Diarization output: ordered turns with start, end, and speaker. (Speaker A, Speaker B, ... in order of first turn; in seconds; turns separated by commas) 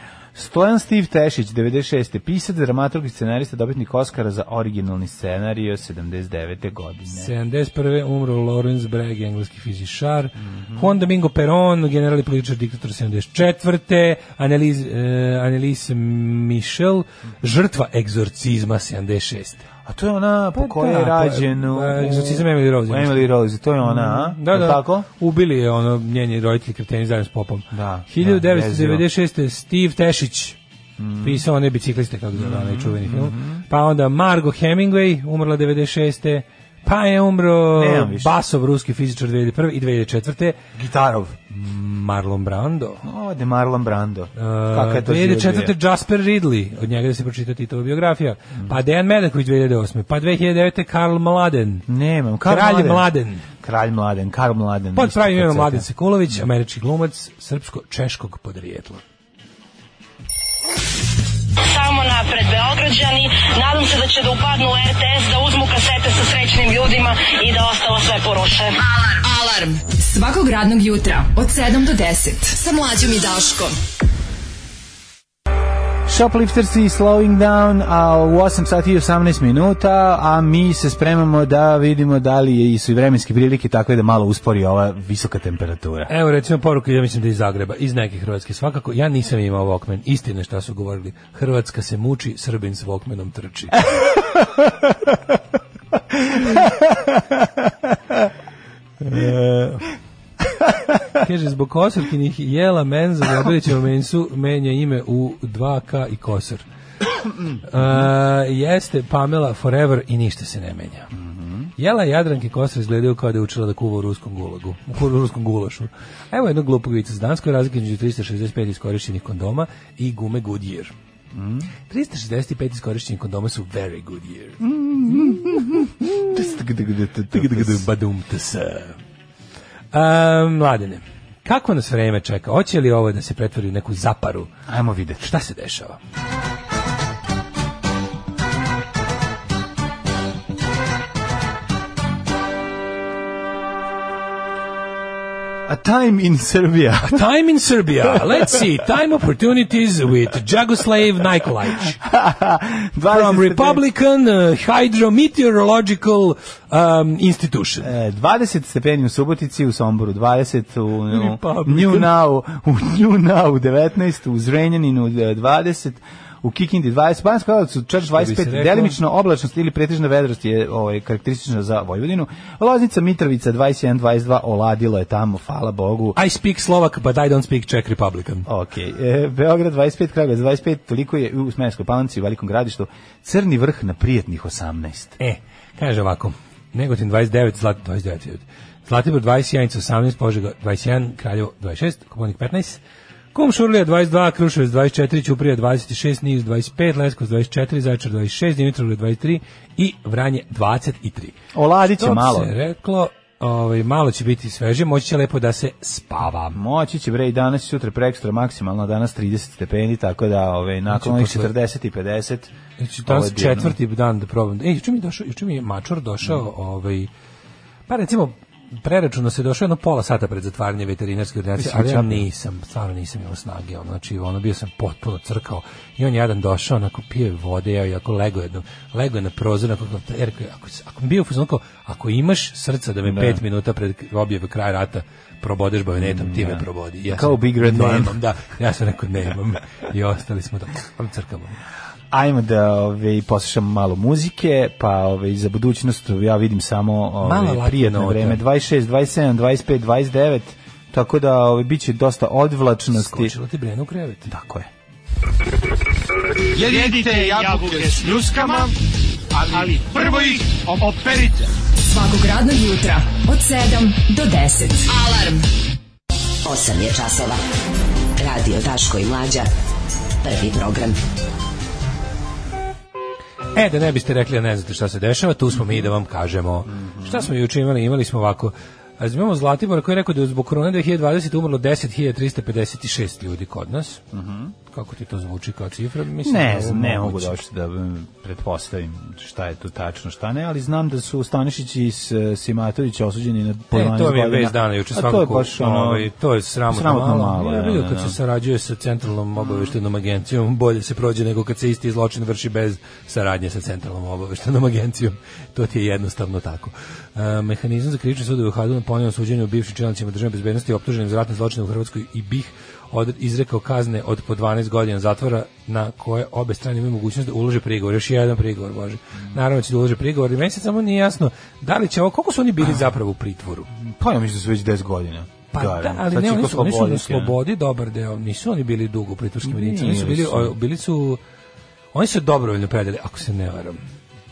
Speaker A: 0.3-7.3, Speaker B: 7.1-19.6, Speaker A: 10.4-10.9, Speaker A: 19.8-25.1, Speaker B: 20.5-23.3, Speaker B: 23.8-30.6, Speaker A: 27.7-29.0, Speaker A: 31.0-31.4, Speaker B: 31.2-40.6, Speaker A: 32.4-33.6, Speaker A: 37.7-38.3, Speaker A: 40.7-41.4, Speaker B: 41.5-43.0, Speaker A: 43.0-45.7, Speaker B: 44.4-51.9, Speaker A: 51.9-55.9, Speaker B: 52.4-53.5, Speaker B: 55.0-59.0, Speaker C: 61.6-68.8, Speaker D: 68.8-73.8, Speaker A: 76.0-86.1, Speaker B: 86.1-93.8, Speaker A: 96.3-97.2, Speaker B: 99.0-99.8, Speaker B: 101.2-106.6, Speaker A: 107.5-108.0, Speaker B: 107.6-111.1, Speaker A: 111.1-111.7, Speaker B: 111.8-120.9, Speaker A: 121.3-121.7, Speaker B: 121.9-124.6, Speaker A: 124.6-127.8, Speaker B: 127.3-128.9, Speaker B: 129.9-134.5, Speaker A: 134.7-135.3, Speaker B: 135.2-136.0, Speaker A: 145.7-147.2, Speaker B: 147.0-152.0, Speaker A: 151.8-153.8, Speaker B: 153.1-157.9, Speaker A: 157.8-176.2, Speaker B: 161.1-162.1, Speaker B: 168.0-169.0, Speaker B: 176.2-178.5, Speaker A: 178.5-185.2, Speaker B: 185.2-192.8, Speaker B: 193.3-201.3, Speaker A: 201.5-202.5, Speaker B: 202.0-206.6, Speaker A: 206.5-212.5, Speaker B: 210.9-211.5, Speaker B: 212.8-217.1, Speaker A: 213.0-213.8, Speaker B: 217.9-241.6, Speaker A: 221.6-222.2, Speaker A: 233.0-233.4, Speaker A: 235.9-238.2, Speaker A: 242.1-253.3, Speaker B: 247.2-248.4, Speaker B: 252.9-254.3, Speaker A: 254.2-254.7, Speaker A: 256.5-258.5, Speaker D: 261.8-265.4, Speaker E: 266.4-267.4, Speaker E: 268.2-269.5, Speaker E: 270.2-271.0, Speaker B: 273.5-284.0, Speaker A: 276.7-277.3, Speaker A: 284.1-284.5, Speaker B: 284.7-287.4, Speaker A: 286.2-296.1, Speaker B: 293.7-323.7, Speaker A: 296.7-298.2, Speaker A: 299.4-299.7, Speaker A: 323.7-327.4, Speaker B: 325.5-331.2, Speaker A: 329.4-330.5, Speaker B: 331.9-333.8